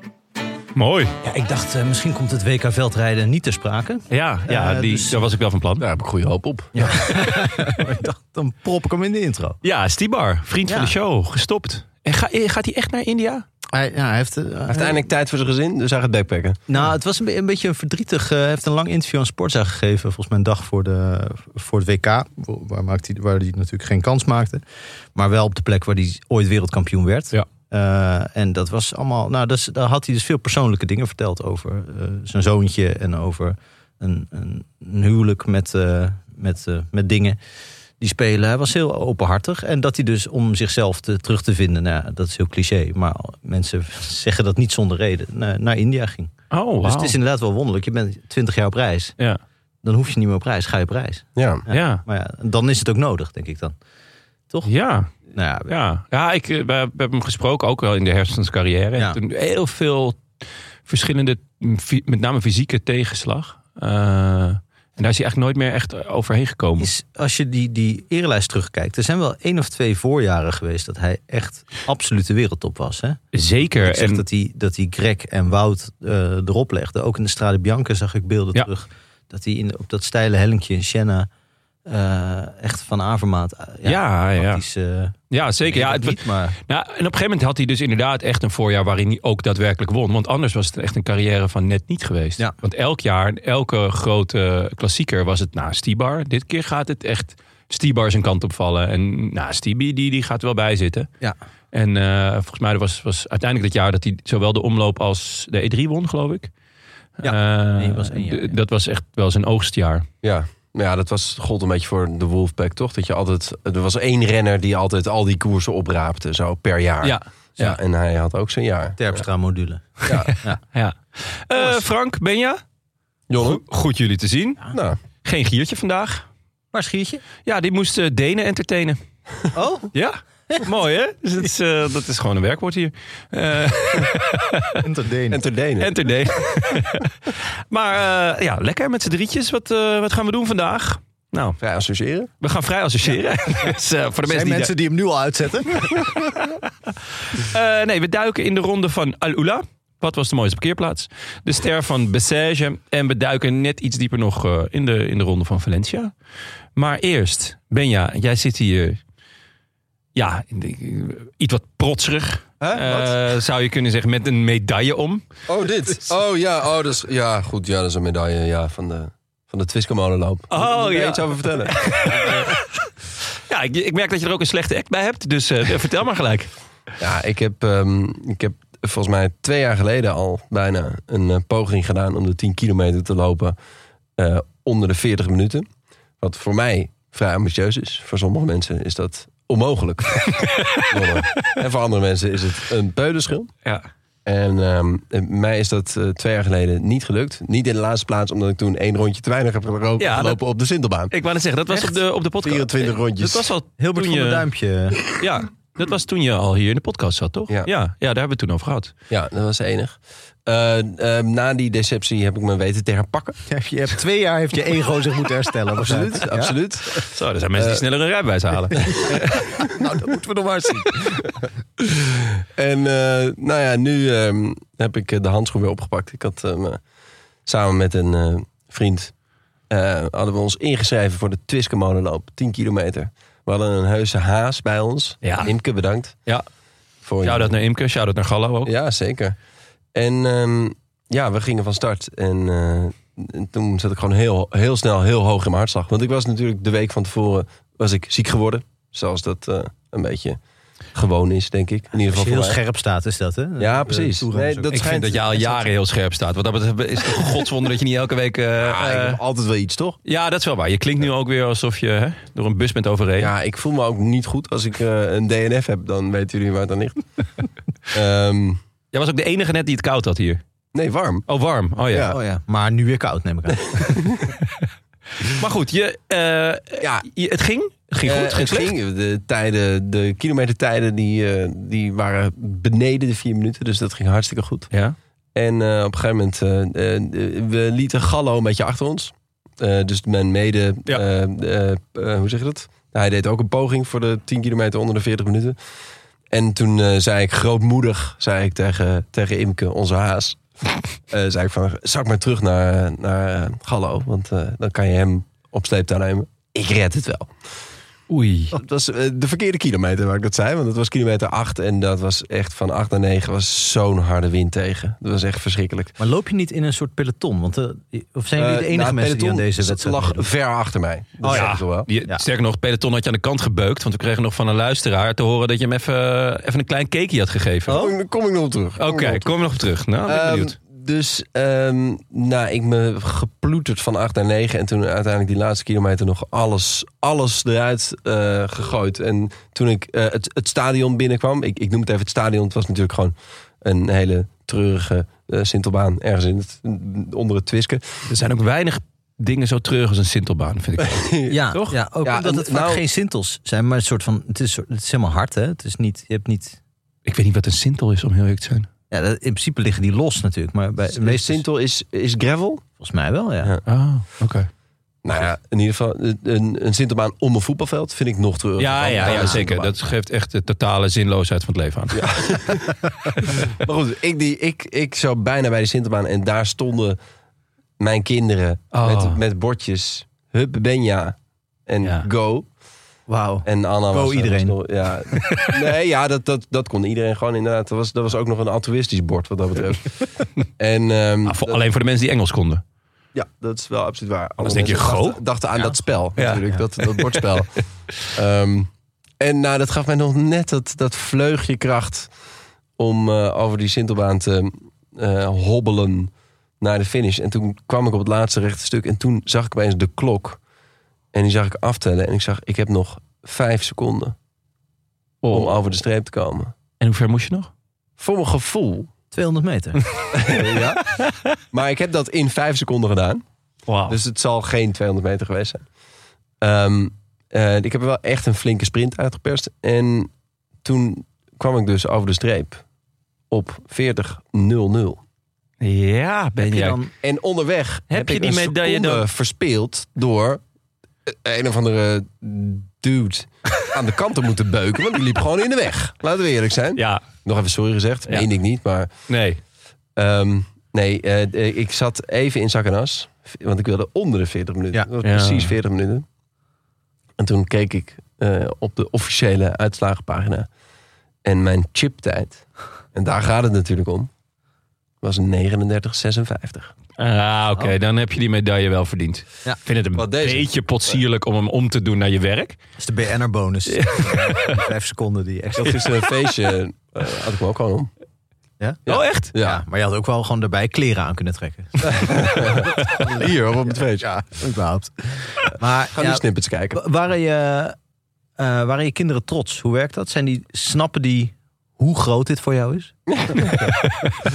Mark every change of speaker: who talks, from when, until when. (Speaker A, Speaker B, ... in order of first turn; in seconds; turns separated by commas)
Speaker A: 0.8-1.1, Speaker B: 1.2-5.2, Speaker A: 4.1-5.8, Speaker C: 5.8-7.0, Speaker B: 6.7-9.6, Speaker A: 9.6-13.4, Speaker B: 10.7-10.9, Speaker B: 13.7-15.1, Speaker C: 14.7-16.6, Speaker B: 16.7-24.6, Speaker B: 25.1-37.4, Speaker B: 38.0-49.1, Speaker A: 46.5-47.2, Speaker B: 49.8-53.7, Speaker C: 51.4-51.6, Speaker A: 51.7-52.0, Speaker A: 54.6-55.1, Speaker B: 55.3-55.7, Speaker A: 55.7-60.2, Speaker A: 60.9-66.9, Speaker B: 66.8-81.3, Speaker A: 73.3-74.2, Speaker B: 81.8-86.5, Speaker A: 83.8-84.6, Speaker A: 85.3-101.1, Speaker A: 101.7-106.5, Speaker A: 107.2-110.1, Speaker B: 107.2-108.5, Speaker C: 110.2-119.2, Speaker B: 119.0-120.6, Speaker C: 120.0-120.4, Speaker A: 120.7-122.6, Speaker C: 123.3-123.6, Speaker A: 123.4-124.7, Speaker C: 124.7-125.0, Speaker A: 125.2-126.2, Speaker B: 126.7-127.2, Speaker A: 127.4-129.0, Speaker B: 129.5-129.9, Speaker A: 129.9-134.8, Speaker B: 134.8-135.4, Speaker C: 135.3-135.9, Speaker A: 135.8-137.1, Speaker A: 137.7-141.6, Speaker C: 141.6-142.3, Speaker A: 142.4-144.7, Speaker B: 144.2-146.4, Speaker A: 147.3-156.1, Speaker A: 156.8-159.0, Speaker A: 160.1-165.2, Speaker C: 162.6-163.1, Speaker C: 165.5-172.5, Speaker A: 170.5-172.7, Speaker A: 173.5-176.5, Speaker C: 177.0-183.6, Speaker C: 184.2-185.7, Speaker C: 186.2-193.5, Speaker A: 190.3-191.5, Speaker C: 194.2-201.1, Speaker A: 200.0-200.4, Speaker A: 201.1-204.5, Speaker C: 202.4-203.5, Speaker B: 203.8-205.0, Speaker A: 205.1-208.9, Speaker C: 209.1-213.4, Speaker B: 213.5-217.0, Speaker C: 215.8-217.8, Speaker A: 217.0-219.3, Speaker C: 218.7-219.1, Speaker B: 218.9-221.3, Speaker C: 221.8-226.8, Speaker C: 227.4-229.1, Speaker C: 229.7-236.2, Speaker A: 235.2-235.5, Speaker C: 237.0-237.5, Speaker A: 237.2-238.7, Speaker C: 238.7-239.3, Speaker C: 239.9-250.4, Speaker C: 250.9-252.6, Speaker B: 252.0-254.8, Speaker C: 253.6-255.6, Speaker A: 254.7-259.2, Speaker C: 258.6-260.0, Speaker A: 260.0-263.3, Speaker C: 263.2-267.0, Speaker C: 267.9-268.6, Speaker A: 268.9-270.4, Speaker C: 270.7-271.2, Speaker A: 271.3-272.1, Speaker C: 271.9-272.2, Speaker B: 272.1-274.1, Speaker C: 273.7-274.2, Speaker A: 275.2-278.7, Speaker C: 276.8-277.1, Speaker C: 278.0-284.7, Speaker A: 284.7-285.0, Speaker C: 285.3-295.6, Speaker C: 296.3-300.4, Speaker C: 301.1-307.3, Speaker A: 308.1-308.6, Speaker C: 308.5-315.9, Speaker B: 316.0-320.3, Speaker C: 318.4-321.9, Speaker B: 321.2-322.2, Speaker A: 321.3-327.8, Speaker B: 327.7-327.9, Speaker C: 327.7-329.3, Speaker A: 328.8-330.5, Speaker C: 330.1-348.0, Speaker A: 348.1-351.7, Speaker C: 350.8-351.4, Speaker B: 351.3-356.6, Speaker C: 352.0-352.8, Speaker A: 357.1-358.7, Speaker B: 358.9-361.4, Speaker C: 360.9-362.6, Speaker B: 362.8-363.5, Speaker A: 363.7-364.5, Speaker C: 365.0-369.7, Speaker A: 368.6-372.1, Speaker B: 369.0-369.4, Speaker C: 371.9-377.0, Speaker C: 377.8-381.1, Speaker A: 378.7-379.2, Speaker C: 381.7-382.5, Speaker B: 383.1-384.6, Speaker C: 383.4-390.0, Speaker C: 390.6-391.6, Speaker A: 391.2-392.6, Speaker C: 393.1-397.5, Speaker A: 394.4-395.2, Speaker A: 396.2-397.2, Speaker C: 398.0-402.1, Speaker C: 402.8-410.4, Speaker C: 411.1-414.1, Speaker C: 415.2-416.5, Speaker A: 416.8-417.5, Speaker C: 418.0-418.9, Speaker B: 419.1-419.8, Speaker C: 420.1-420.8, Speaker C: 421.5-423.2, Speaker A: 423.7-424.0, Speaker C: 423.9-425.6, Speaker C: 426.4-430.1, Speaker C: 430.6-432.6, Speaker C: 433.3-435.0, Speaker A: 435.6-436.8, Speaker B: 436.4-436.9, Speaker C: 437.0-440.4, Speaker A: 437.9-439.0, Speaker C: 441.1-448.9, Speaker A: 446.8-447.1, Speaker A: 449.1-449.4, Speaker C: 449.9-456.0, Speaker A: 455.0-455.5, Speaker C: 457.2-460.5, Speaker C: 461.2-464.1, Speaker C: 465.0-466.7, Speaker A: 467.0-472.6, Speaker C: 469.9-470.5, Speaker B: 472.8-476.0, Speaker A: 473.7-474.6, Speaker C: 475.6-477.9, Speaker B: 478.6-487.7, Speaker A: 478.9-479.3, Speaker C: 478.9-479.6, Speaker C: 481.8-484.2, Speaker C: 485.9-486.8, Speaker B: 488.4-493.0, Speaker C: 493.1-493.8, Speaker A: 493.5-494.1